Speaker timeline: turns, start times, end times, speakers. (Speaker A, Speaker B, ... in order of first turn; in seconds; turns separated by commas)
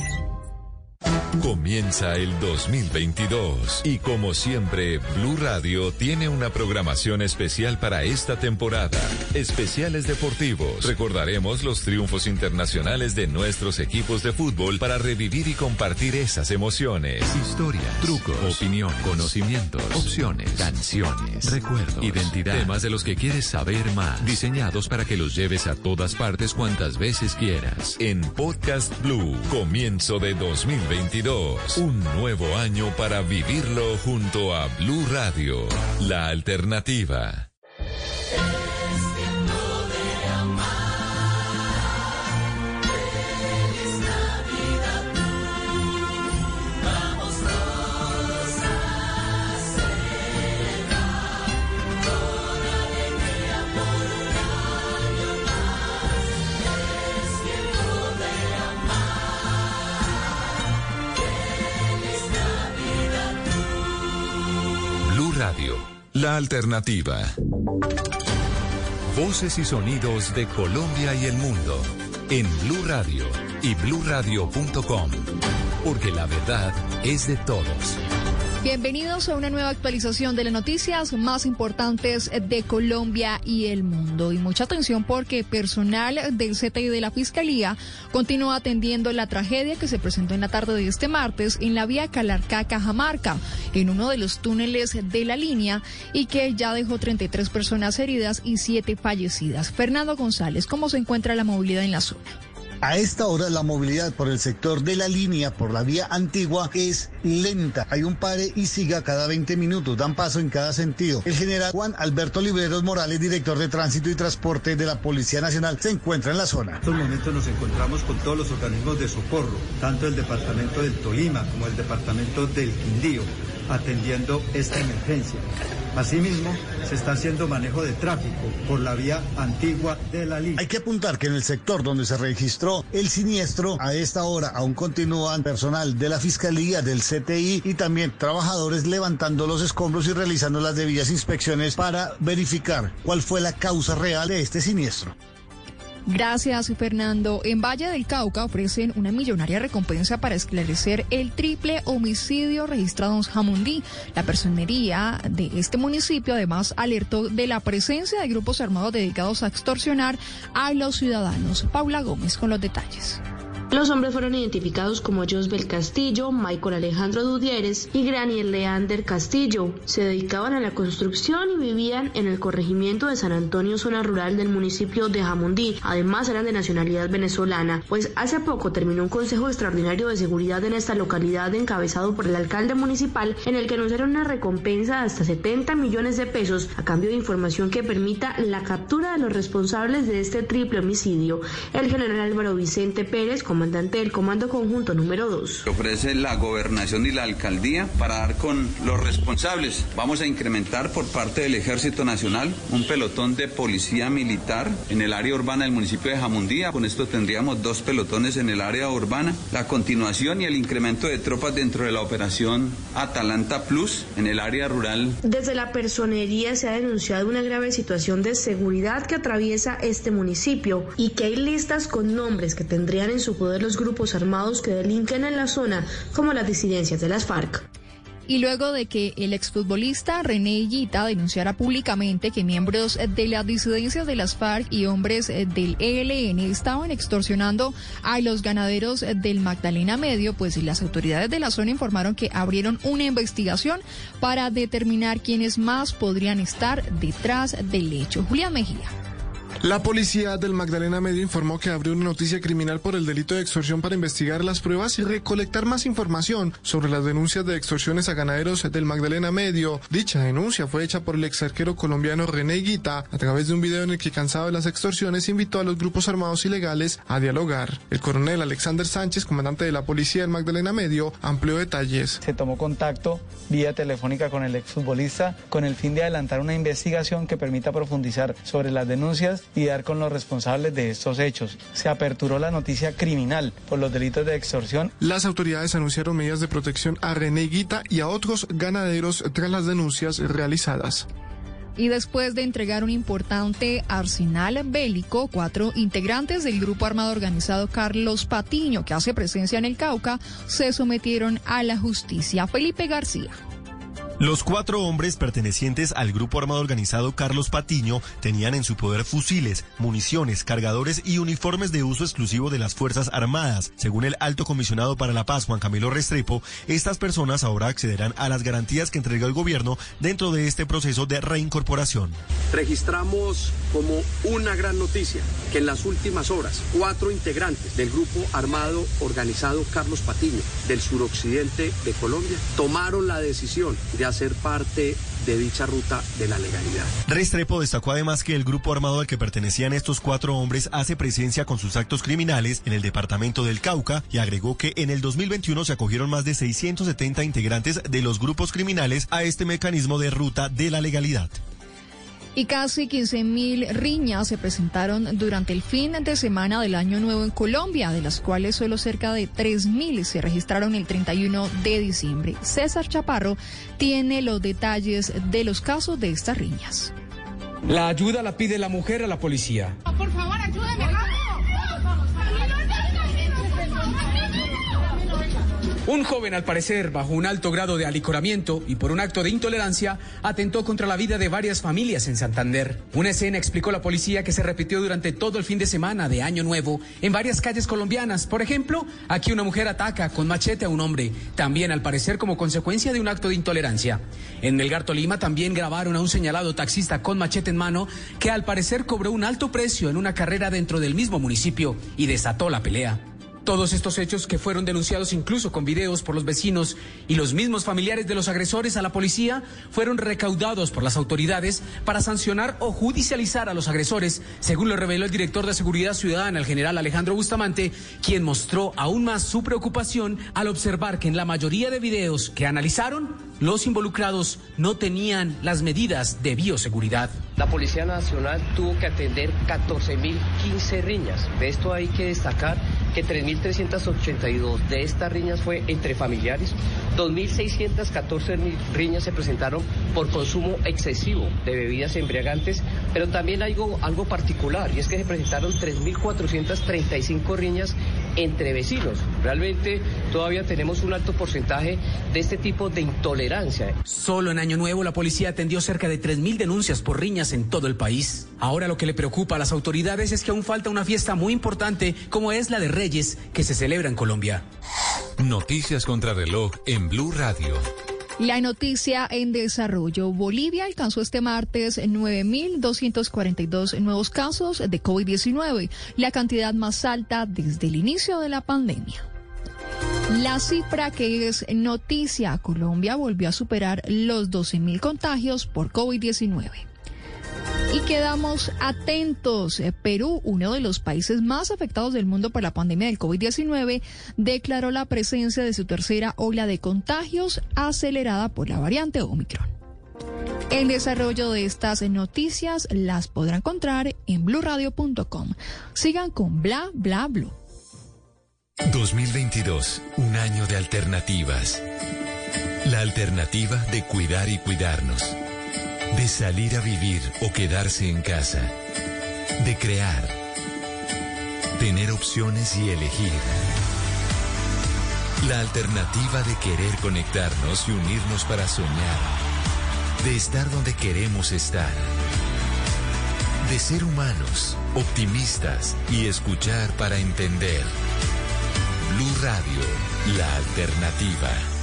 Speaker A: 1.4-37.5, Speaker A: 65.0-67.3, Speaker A: 69.1-75.3, Speaker A: 75.8-78.0, Speaker B: 78.6-102.4, Speaker C: 102.8-116.8, Speaker D: 116.8-125.4, Speaker D: 126.0-130.6, Speaker C: 130.6-145.1, Speaker B: 146.1-163.2, Speaker E: 163.7-195.6, Speaker F: 195.7-215.2, Speaker E: 215.2-227.7, Speaker B: 228.3-248.9, Speaker G: 249.6-272.2, Speaker H: 272.2-284.9, Speaker G: 285.0-291.1, Speaker B: 291.8-303.4, Speaker I: 304.2-322.2, Speaker J: 322.5-336.9, Speaker I: 337.1-351.4, Speaker B: 352.4-366.9, Speaker K: 367.7-369.8, Speaker K: 375.9-427.2, Speaker L: 427.4-453.8, Speaker K: 453.9-464.4, Speaker A: 465.2-467.6, Speaker B: 468.2-479.1, Speaker B: 480.1-486.7, Speaker B: 487.7-499.5, Speaker B: 500.5-507.4, Speaker A: 508.6-511.6, Speaker A: 512.6-515.1, Speaker A: 515.9-518.5, Speaker A: 519.4-520.2, Speaker A: 521.6-523.4, Speaker A: 525.2-529.2, Speaker A: 530.0-531.9, Speaker A: 533.4-537.7, Speaker A: 538.9-541.5